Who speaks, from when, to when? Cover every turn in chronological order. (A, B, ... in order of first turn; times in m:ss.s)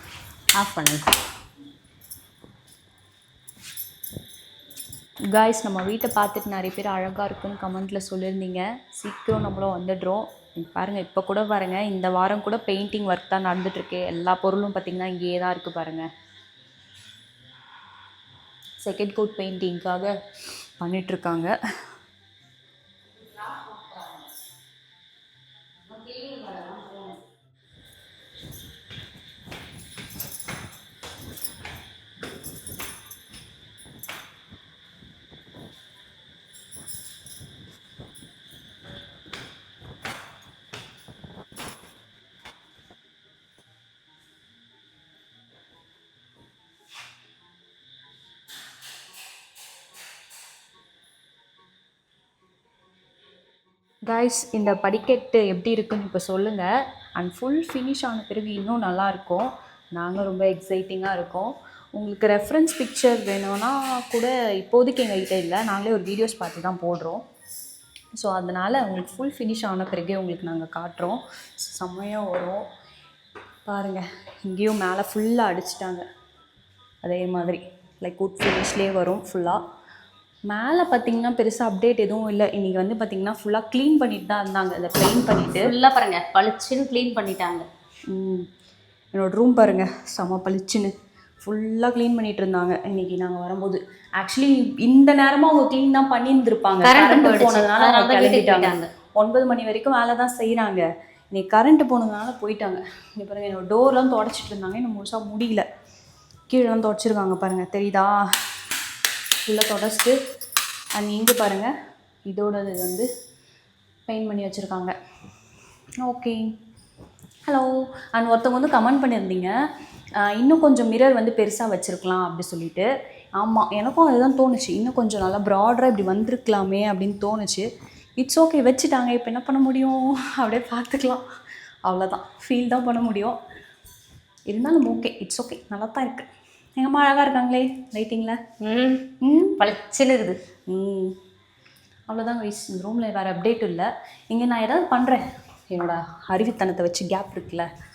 0:00.6-0:01.1 A
0:05.4-0:16.1 B
0:18.8-0:20.1 B
0:20.8-0:21.5 B
0:23.5-0:23.7 A
0:25.9-0:27.1 A
0:54.0-1:07.2 B
1:08.2-1:12.6 B
1:13.7-1:16.0 B
1:17.0-1:19.6 B
1:20.5-1:25.7 B
1:25.6-1:27.6 A
1:28.1-1:28.4 B
1:29.1-1:30.9 B
1:31.4-1:45.6 B
1:36.8-1:38.9 A
1:46.5-1:48.4 B
1:49.4-1:50.2 B
1:51.0-1:51.7 B
1:52.3-1:53.0 B
1:54.1-1:54.9 B
1:56.0-1:56.4 B
1:57.5-1:59.5 B
2:00.2-2:07.7 B
2:08.2-2:11.2 B
2:11.8-2:13.4 B
2:14.5-2:16.3 B
2:16.8-2:18.4 B
2:18.6-2:20.4 A
2:19.2-2:19.6 B
2:20.7-2:21.1 B
2:22.1-2:27.7 B